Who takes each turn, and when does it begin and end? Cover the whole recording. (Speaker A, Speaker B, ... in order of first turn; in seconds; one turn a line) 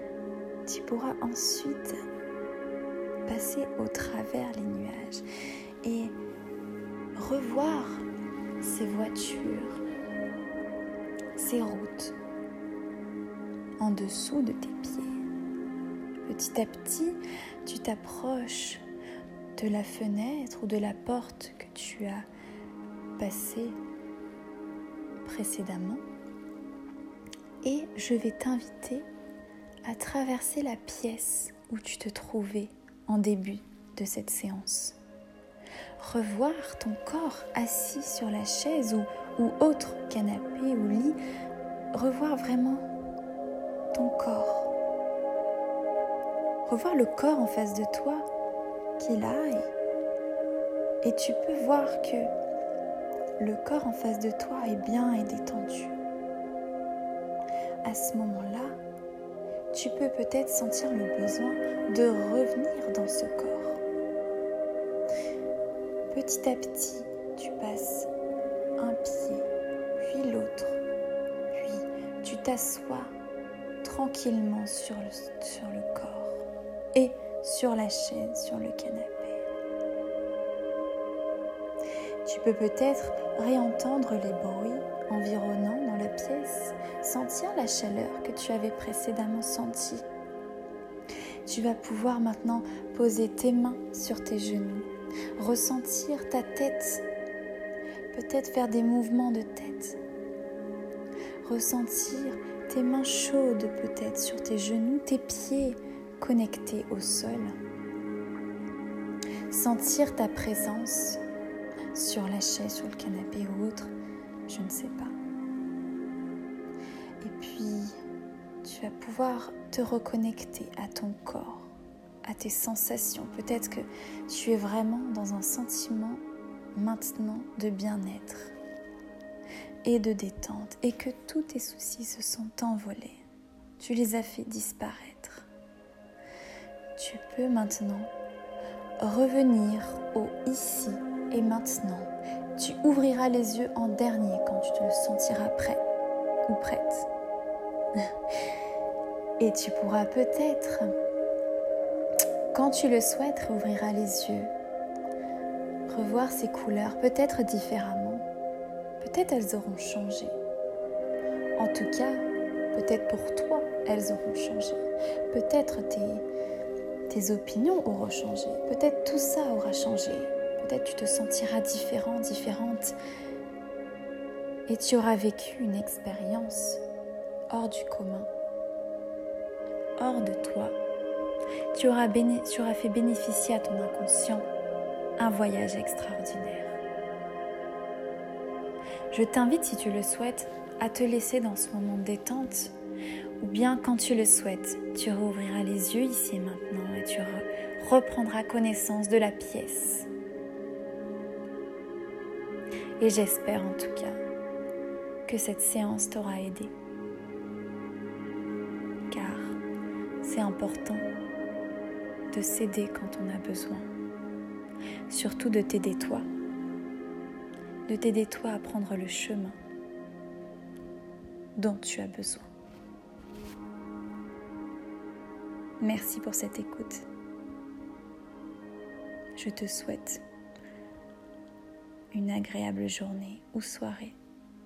Speaker A: 0.7-2.0
Speaker A: 3.3-5.2
Speaker A: 5.8-6.2
Speaker A: 7.1-8.1
Speaker A: 8.6-9.8
Speaker A: 11.3-12.2
Speaker A: 13.8-15.2
Speaker A: 16.2-18.8
Speaker A: 19.6-22.2
Speaker A: 23.2-23.8
Speaker A: 25.2-26.0
Speaker A: 27.6-29.1
Speaker A: 29.8-35.0
Speaker A: 36.0-41.2
Speaker A: 41.9-42.9
Speaker A: 43.9-44.7
Speaker A: 46.6-48.2
Speaker A: 49.0-49.7
Speaker A: 51.0-52.3
Speaker A: 53.4-56.0
Speaker A: 57.8-58.8
Speaker A: 59.7-63.8
Speaker A: 66.1-68.1
Speaker A: 68.8-70.8
Speaker A: 71.5-73.1
Speaker A: 73.8-79.4
Speaker A: 82.2-90.0
Speaker A: 91.5-97.0
Speaker A: 98.1-100.0
Speaker A: 101.4-107.5
Speaker A: 109.5-111.2
Speaker A: 111.9-113.9
Speaker A: 114.5-115.1
Speaker A: 117.2-118.0
Speaker A: 118.6-126.2
Speaker A: 126.7-128.5
Speaker A: 129.8-133.2
Speaker A: 133.8-135.5
Speaker A: 136.9-138.1
Speaker A: 139.0-145.8
Speaker A: 146.5-147.1
Speaker A: 149.4-150.9
Speaker A: 152.5-154.5
Speaker A: 155.9-158.3
Speaker A: 159.0-160.4
Speaker A: 161.6-166.2
Speaker A: 167.1-173.0
Speaker A: 174.7-176.8
Speaker A: 177.5-178.3
Speaker A: 180.0-180.8
Speaker A: 181.7-184.5
Speaker A: 185.2-186.8
Speaker A: 189.1-192.7
Speaker A: 193.4-200.1
Speaker A: 203.0-204.2
Speaker A: 205.2-206.7
Speaker A: 209.1-209.6
Speaker A: 210.2-211.1
Speaker A: 212.3-213.9
Speaker A: 215.1-216.3
Speaker A: 217.9-219.6
Speaker A: 221.6-222.5
Speaker A: 225.8-227.1
Speaker A: 229.3-230.2
Speaker A: 232.1-234.2